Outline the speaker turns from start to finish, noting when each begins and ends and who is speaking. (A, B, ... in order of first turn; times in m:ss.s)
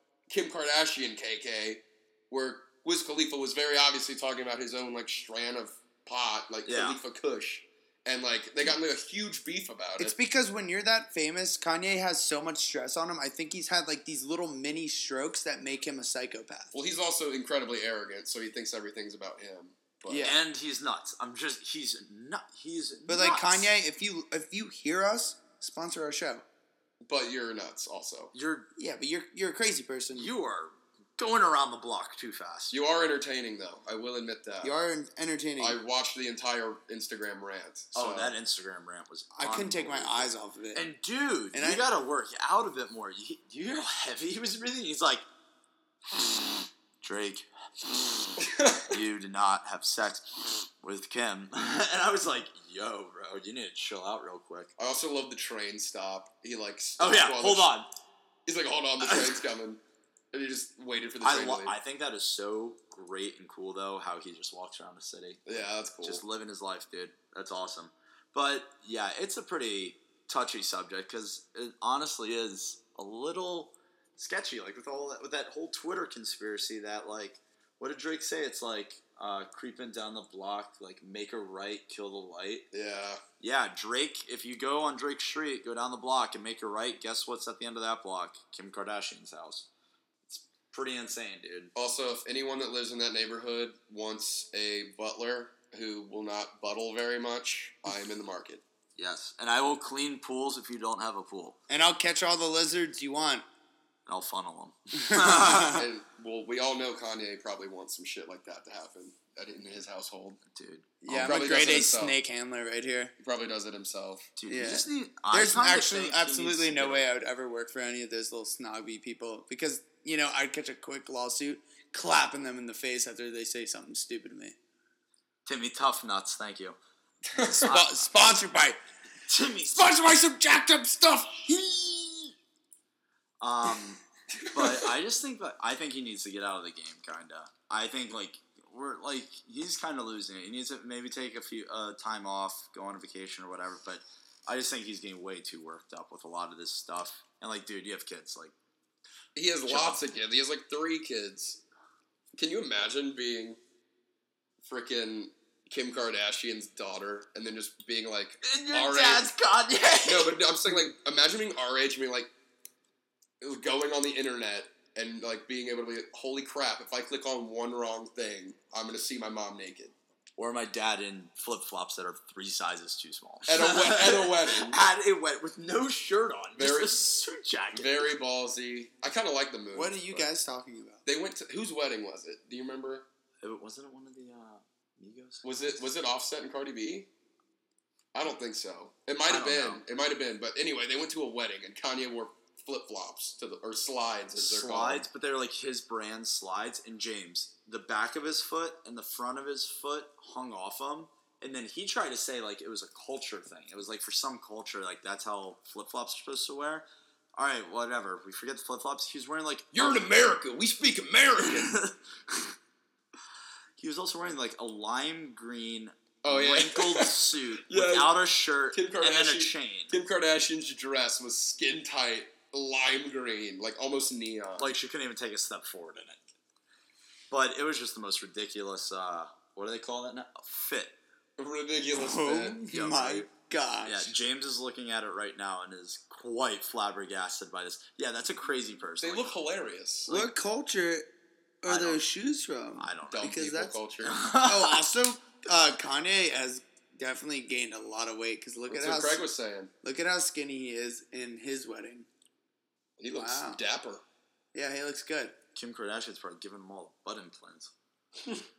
0:00.3-0:10.2 A
0:06.6-0:07.0 B
0:10.0-0:16.7 C
0:16.7-0:20.3 A
0:20.1-0:20.4 C
0:20.2-0:23.7 B
0:23.1-0:26.4 C
0:27.0-0:28.3 A
0:28.3-0:28.7 B
0:28.8-0:30.3 C
0:30.1-0:32.8 B
0:32.7-0:34.7 A
0:34.6-0:35.8 C
0:35.6-0:38.3 A
0:37.9-0:45.2 B
0:39.4-0:40.9 C
0:41.5-0:41.8 C
0:46.1-0:54.7 B
0:48.4-0:48.9 A
0:54.8-0:57.7 A
0:57.0-0:57.9 B
0:58.4-0:59.8 A
0:59.0-0:59.4 B
1:00.3-1:01.7 A
1:01.2-1:22.7 B
1:05.4-1:06.2 A
1:22.7-1:23.2 A
1:23.4-1:29.7 B
1:30.3-1:31.7 B
1:31.7-1:38.6 A
1:39.0-1:41.6 B
1:41.7-1:43.4 C
1:44.1-1:45.8 B
1:45.0-1:45.8 C
1:45.6-1:50.4 A
1:50.5-1:51.5 B
1:51.0-1:53.1 C
1:51.2-1:52.2 A
1:53.2-1:54.3 A
1:54.4-1:57.1 B
1:54.5-2:04.6 C
2:05.4-2:06.8 B
2:07.4-2:07.7 A
2:07.4-2:08.8 C
2:07.6-2:08.4 B
2:09.3-2:10.0 B
2:09.7-2:12.3 C
2:13.4-2:28.5 B
2:14.4-2:14.8 A
2:29.3-2:31.6 A
2:29.7-2:30.0 B
2:32.3-2:33.6 A
2:34.6-2:39.3 A
2:38.4-2:40.4 B
2:40.0-2:42.3 A
2:43.4-2:49.9 A
2:50.4-2:58.1 B
2:53.5-2:54.8 A
2:56.6-2:57.0 A
2:57.7-3:00.3 A
2:59.7-3:01.0 C
3:01.0-3:03.0 A
3:03.4-3:05.8 B
3:05.4-3:07.1 A
3:08.1-3:15.0 A
3:09.2-3:09.8 B
3:14.4-3:30.1 B
3:29.7-3:31.8 A
3:31.4-3:32.5 B
3:33.8-3:39.9 B
3:36.2-3:38.1 A
3:38.7-3:44.7 A
3:44.6-3:46.2 B
3:47.3-3:51.0 B
3:51.4-3:52.6 A
3:51.9-3:54.1 C
3:52.7-3:53.3 B
3:53.8-3:59.3 B
3:59.0-4:00.1 A
4:00.1-4:01.1 C
4:01.6-4:03.8 C
4:01.6-4:02.0 B
4:02.8-4:03.3 B
4:03.1-4:04.2 A
4:04.0-4:04.9 B
4:04.4-4:09.2 C
4:08.7-4:09.7 A
4:09.8-4:12.1 C
4:13.0-4:14.0 A
4:13.1-4:13.6 C
4:14.5-4:15.3 C
4:15.5-4:17.7 B